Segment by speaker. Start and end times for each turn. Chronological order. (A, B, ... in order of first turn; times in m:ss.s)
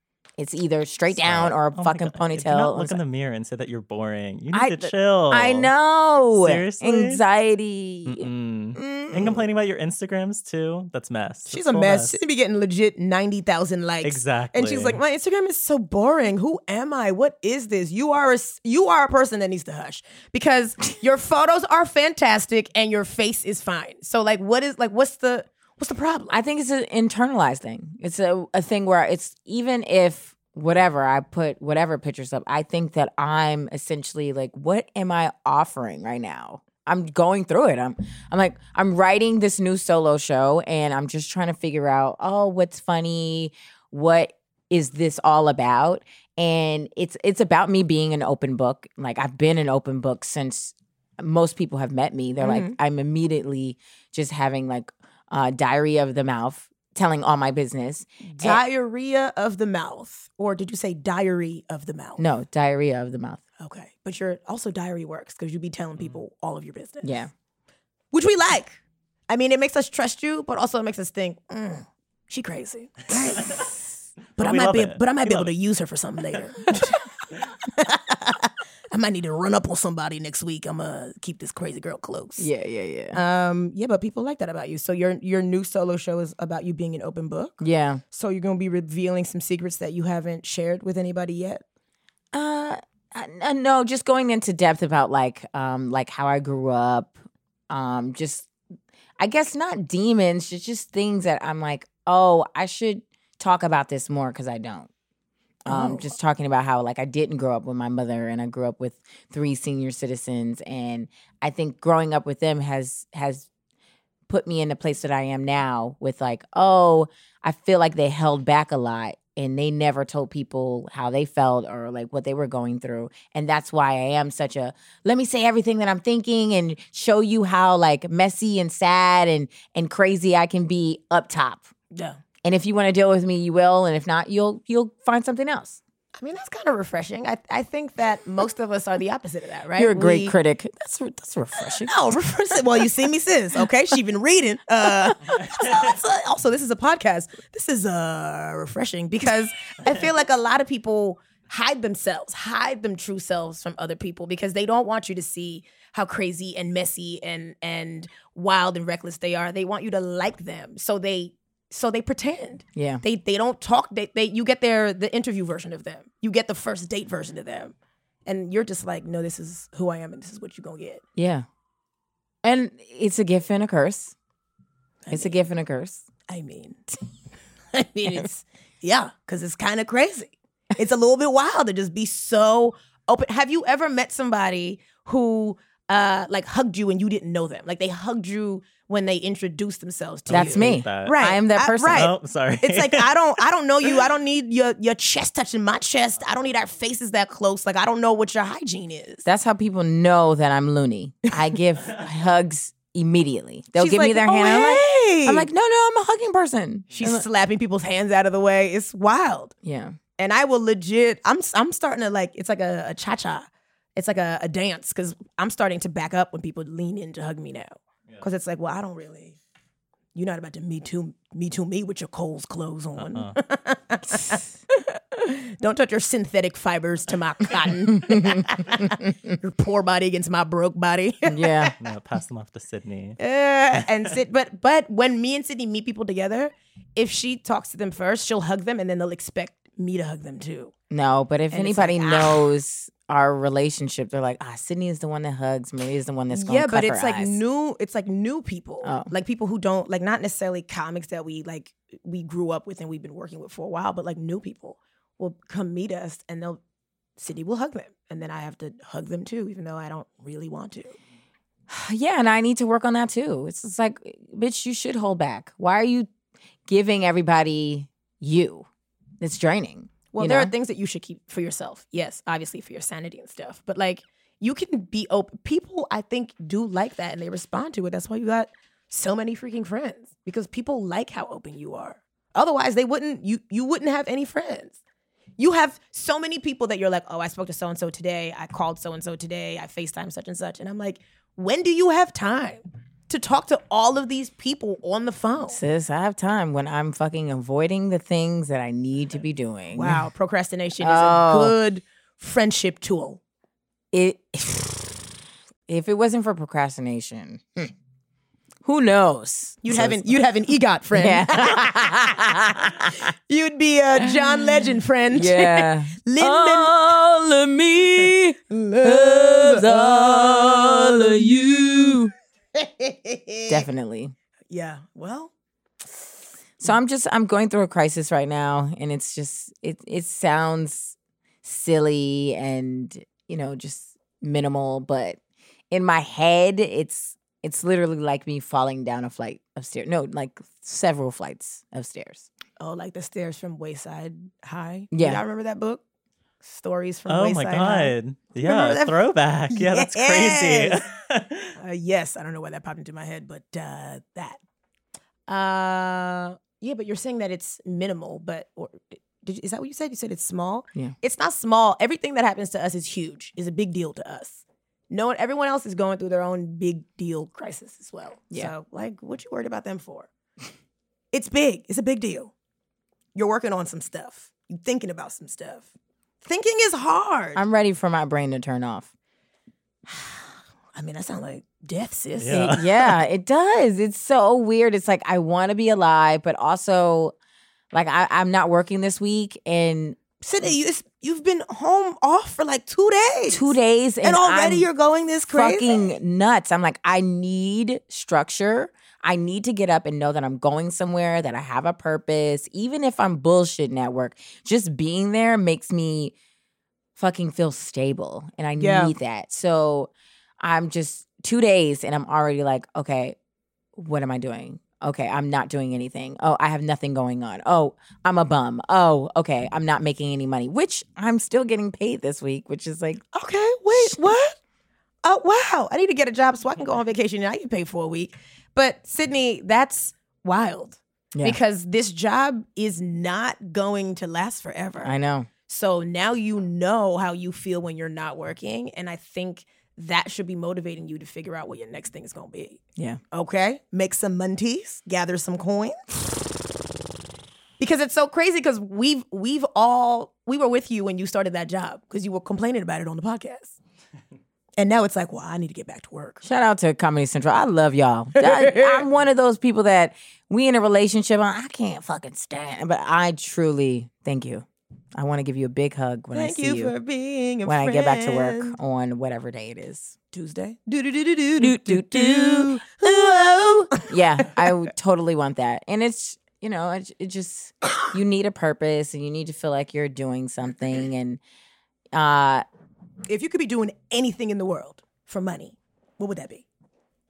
0:00.4-0:03.0 A
0:01.1-0:05.7 B
0:04.5-0:09.4 A
0:06.3-0:07.2 B
0:08.0-0:12.2 B
0:11.5-0:26.3 C
0:14.0-0:15.0 B
0:26.3-0:58.6 A
0:52.4-0:52.8 C
0:58.3-1:02.2 C
1:02.2-1:03.4 A
1:03.6-1:07.2 C
1:07.0-1:07.3 A
1:08.1-1:08.8 C
1:09.3-1:13.7 C
1:14.4-1:15.5 B
1:14.4-1:17.0 C
1:17.7-1:22.5 C
1:22.4-1:23.2 A
1:23.1-1:31.6 C
1:27.6-1:28.0 A
1:32.3-1:37.2 A
1:37.7-1:38.5 A
1:39.2-1:44.9 A
1:45.6-1:53.5 A
1:45.7-1:46.1 C
1:54.3-2:11.7 A
2:11.9-2:12.2 C
2:12.4-2:15.8 A
2:16.2-2:20.3 C
2:19.8-2:21.9 A
2:21.8-2:47.7 C
2:42.8-2:43.0 A
2:48.2-2:51.0 C
2:51.2-2:51.4 A
2:52.4-2:54.1 A
2:55.0-2:55.4 C
2:55.1-2:56.0 A
2:56.3-2:56.8 C
2:57.7-3:19.2 C
3:10.3-3:11.2 B
3:10.3-3:12.1 A
3:11.9-3:13.2 B
3:19.2-3:27.2 A
3:23.7-3:25.5 C
3:27.0-3:29.5 C
3:29.6-3:30.0 A
3:30.2-3:39.4 C
3:40.1-3:44.4 C
3:43.0-3:43.4 B
3:45.2-3:51.7 C
3:48.0-3:49.1 A
3:51.3-3:51.7 A
3:51.8-3:53.2 B
3:53.2-4:00.7 C
4:00.9-4:07.4 A
4:01.5-4:02.5 C
4:06.3-4:16.6 C
4:08.8-4:09.1 A
4:17.2-4:21.0 C
4:21.7-4:26.1 A
4:26.7-4:28.7 A
4:29.2-4:30.5 A
4:30.1-4:44.8 C
4:45.4-4:55.6 C
4:55.5-5:00.0 A
4:59.7-5:03.2 C
5:00.8-5:01.5 A
5:03.9-5:05.1 A
5:05.7-5:07.7 A
5:08.6-5:10.2 A
5:09.6-5:11.8 C
5:10.9-5:13.0 A
5:13.3-5:17.0 C
5:15.1-5:22.1 A
5:18.5-5:21.3 C
5:22.5-5:23.6 C
5:23.5-5:24.1 A
5:24.5-5:25.3 C
5:26.6-5:35.2 A
5:35.7-5:42.3 A
5:42.6-5:45.8 C
5:44.9-5:45.2 A
5:46.4-5:50.8 C
5:47.1-5:51.5 B
5:51.6-5:54.4 C
5:55.3-6:10.1 C
6:11.1-6:12.3 C
6:13.1-6:15.7 C
6:16.2-6:17.4 C
6:17.4-6:18.9 A
6:20.7-6:22.6 C
6:22.2-6:22.6 B
6:22.3-6:27.1 A
6:27.7-6:30.0 A
6:30.2-6:35.8 C
6:33.3-6:34.7 A
6:35.3-6:46.1 A
6:47.0-6:53.2 A
6:48.6-6:48.9 C
6:53.8-7:03.0 A
7:03.1-7:04.4 C
7:03.7-7:04.0 A
7:05.0-7:14.9 C
7:14.8-7:15.3 A
7:15.5-7:22.6 C
7:23.1-7:25.8 C
7:27.6-7:33.5 C
7:34.6-7:36.2 C
7:36.2-7:46.7 A
7:38.2-7:38.8 C
7:46.1-7:48.5 C
7:47.4-7:49.9 A
7:50.1-7:53.9 C
7:51.4-8:01.2 A
8:01.9-8:02.4 A
8:03.1-8:06.4 C